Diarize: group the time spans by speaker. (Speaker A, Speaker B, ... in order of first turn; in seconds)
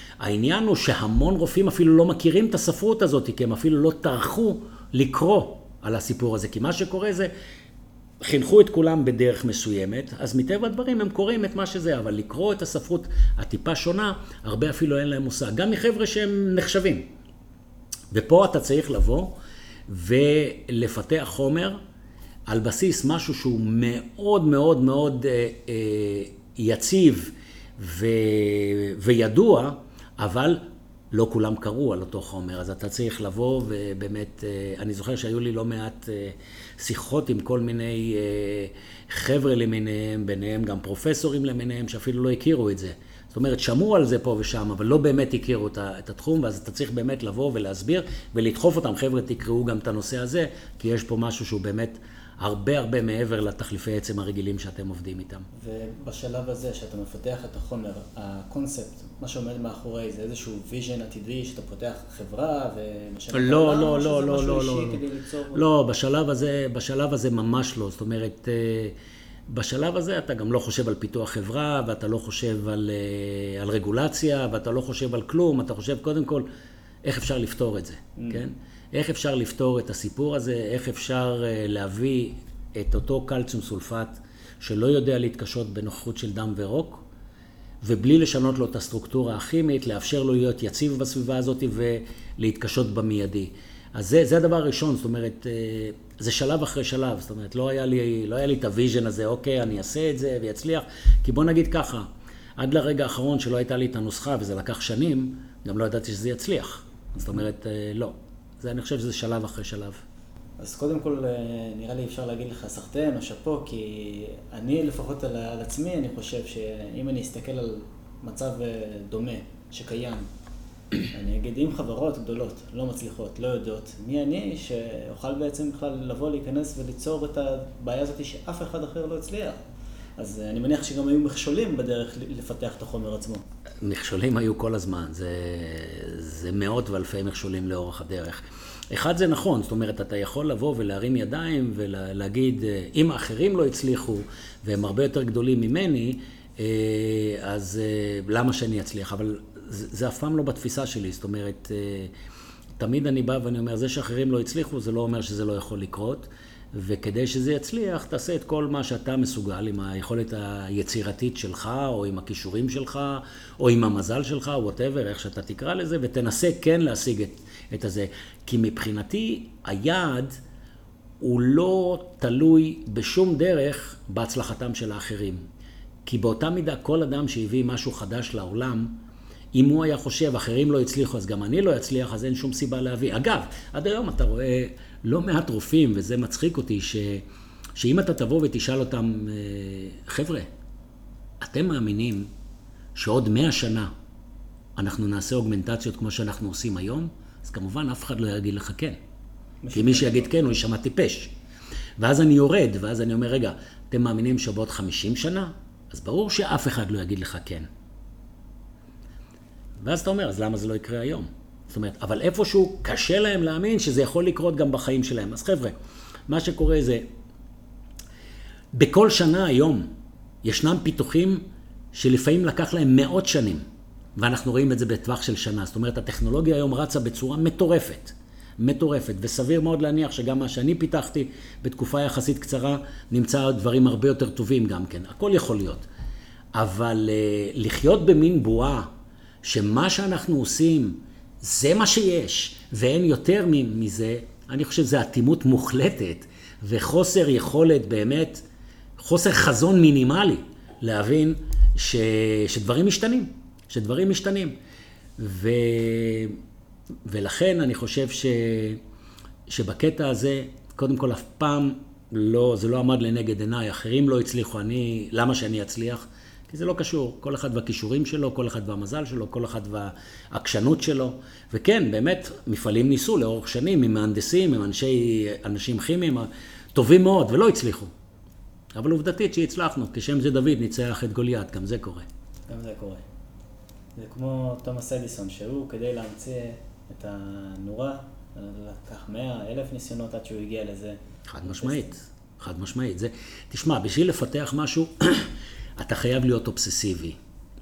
Speaker A: 0.2-7.3, 8.2-17.1, 18.1-19.4, 19.9-21.8, 22.5-55.5, 63.3-65.0, 65.5-69.0, 69.5-76.5, 77.0-87.0, 87.8-102.1, 102.6-110.0, 133.8-152.1, 152.8-170.4, 171.2-175.4, 176.0-187.2, 187.8-190.5, 191.4-192.3, 192.9-193.9, 194.8-199.0, 199.7-201.3, 202.0-207.7, 209.8-215.8, 216.3-217.0, 218.8-219.9, 220.4-223.6, 224.2-235.9, 236.5-238.9, 239.4-248.4, 249.0-254.5, 255.2-256.4, 257.1-258.8, 259.5-277.9, 278.8-282.1, 291.3-297.2
Speaker B: 55.5-65.7, 78.2-78.4, 110.6-120.3, 121.1-129.6, 130.2-133.4, 199.6-200.3, 282.5-283.0, 283.9-291.9